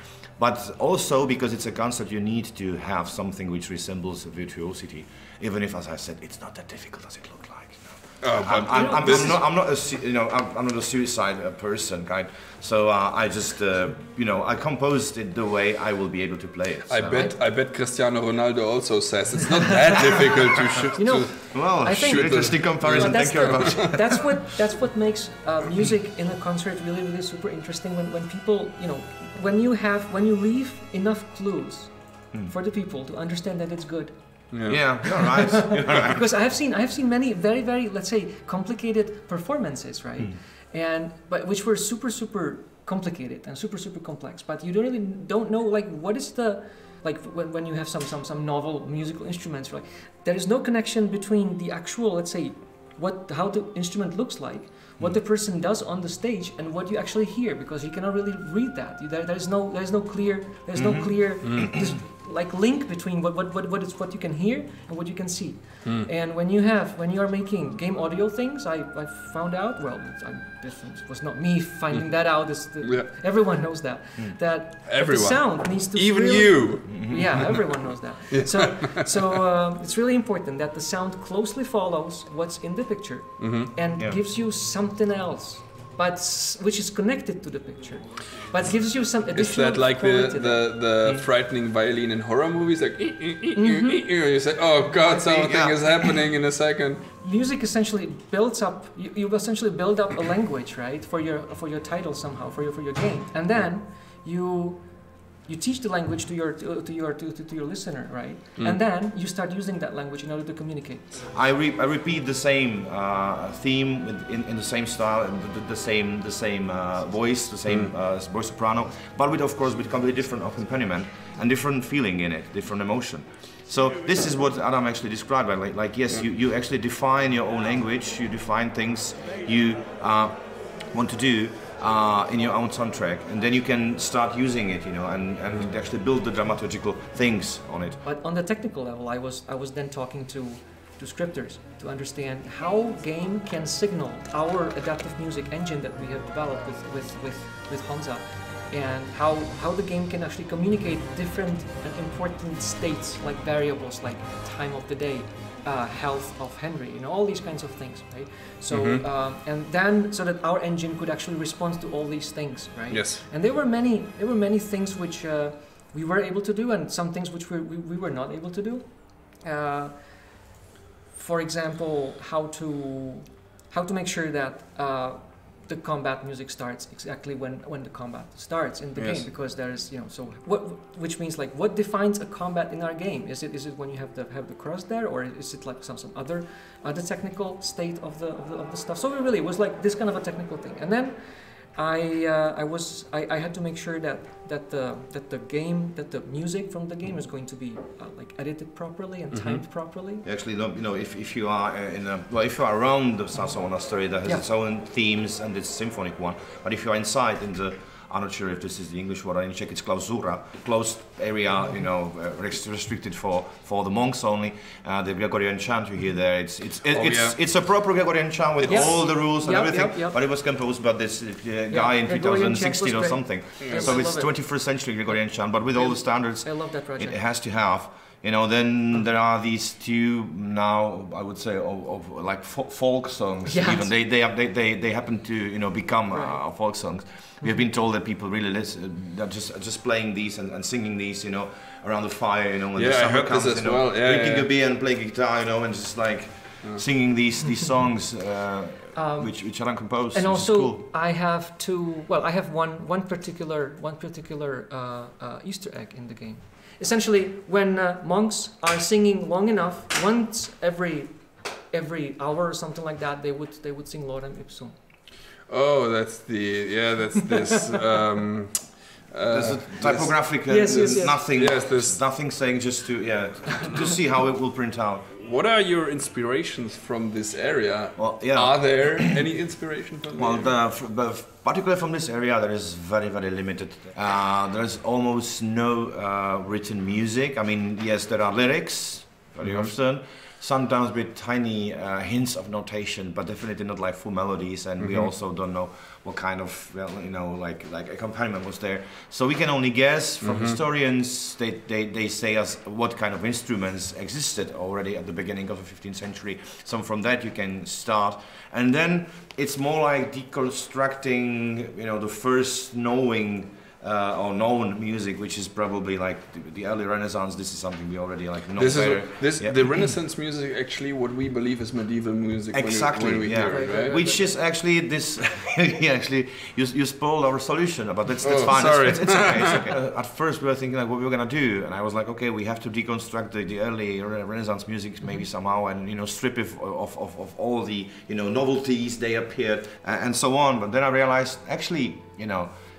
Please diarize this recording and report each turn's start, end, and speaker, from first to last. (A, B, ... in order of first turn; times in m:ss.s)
0:00.4-0:17.3 A
0:08.2-0:09.4 B
0:08.7-0:09.4 C
0:16.9-0:24.0 B
0:21.0-1:30.7 C
0:21.3-0:24.3 A
0:34.5-0:35.3 B
0:34.7-0:36.2 A
1:00.7-1:01.8 A
1:01.4-1:01.7 B
1:11.9-1:13.1 B
1:14.8-1:19.1 B
1:16.9-1:17.6 A
1:23.4-1:23.7 B
1:29.3-1:37.0 B
1:33.5-1:34.2 C
1:35.0-1:35.5 C
1:35.2-1:36.1 A
1:37.1-1:51.1 C
1:51.2-2:18.0 A
2:18.0-2:50.4 C
2:38.7-2:39.0 B
2:42.9-2:43.2 B
2:51.1-3:11.2 C
2:58.9-2:59.3 B
3:11.7-3:20.2 C
3:19.3-3:19.6 B
3:20.2-4:10.8 A
3:36.8-3:37.8 B
3:38.6-3:38.9 B
3:38.7-3:40.2 C
3:41.7-3:44.5 C
3:43.6-3:44.0 B
3:45.7-3:47.2 C
3:53.5-3:53.9 C
3:56.1-3:56.4 C
4:02.8-4:04.5 B
4:08.9-4:24.7 C
4:25.5-4:32.0 B
4:29.3-4:35.1 A
4:30.5-4:31.2 C
4:35.2-4:40.5 B
4:38.0-4:39.2 A
4:40.1-5:19.9 A
4:49.4-4:49.7 B
4:54.8-4:55.1 B
5:00.2-5:00.6 B
5:18.6-5:24.0 B
5:22.5-5:42.5 A
5:23.5-5:24.4 C
5:28.2-5:29.6 B